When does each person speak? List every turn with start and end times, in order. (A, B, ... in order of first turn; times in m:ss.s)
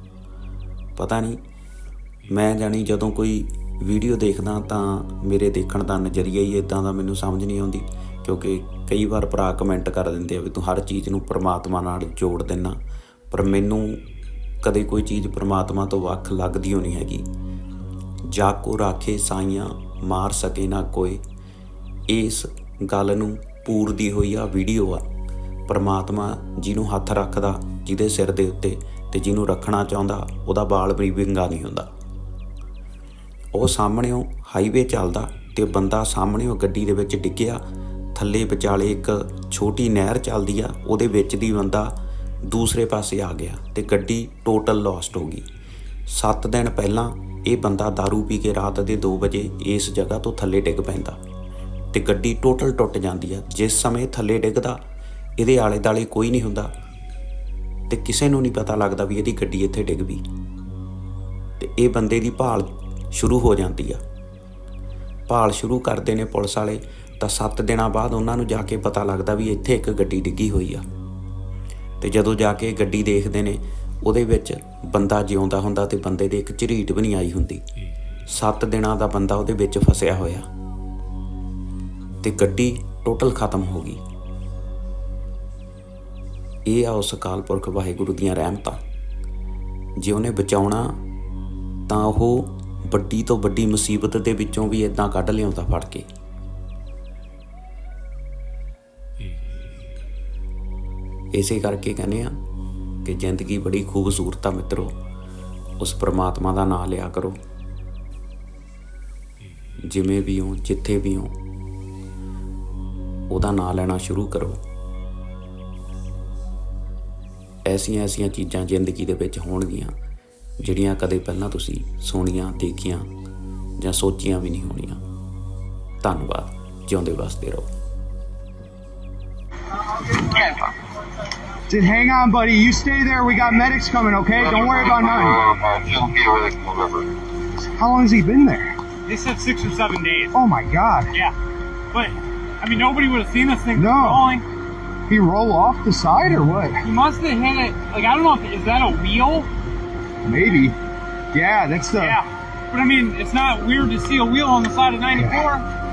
0:01.0-0:01.4 A
0:02.3-0:12.8 A
0:13.3-0:14.0 A
0:14.6-0:17.2 A
0:18.3-0:21.2 A
0:22.1-0:25.0 A
0:25.7-0:31.9 A
0:33.5-0:37.6 A
0:38.1-0:41.9 A
0:42.4-0:45.4 A
0:46.1-0:51.2 A
0:51.9-0:54.8 A
0:55.4-0:56.7 A
0:57.9-1:00.2 A
1:01.6-1:04.0 A
1:05.3-1:10.8 A
1:12.0-1:17.6 A
1:18.3-1:20.5 A
1:22.2-1:24.0 A
1:26.6-1:28.8 A
1:30.0-1:31.0 A
1:31.9-1:36.1 A
1:41.3-1:42.4 A
1:43.0-1:44.9 A
1:45.8-1:47.4 A
1:49.9-1:51.3 A
1:53.3-1:54.6 A
1:57.6-1:59.9 A
2:00.6-2:03.1 A
2:03.8-2:05.0 A
2:06.0-2:07.7 A
2:11.7-2:15.4 B
2:14.7-2:17.1 C
2:17.8-2:18.7 B
2:19.0-2:20.4 D
2:20.3-2:21.1 B
2:21.9-2:24.4 D
2:23.7-2:24.3 B
2:25.1-2:26.8 B
2:26.8-2:29.5 D
2:30.2-2:30.8 B
2:31.3-2:32.2 B
2:32.0-2:35.6 D
2:35.2-2:35.4 B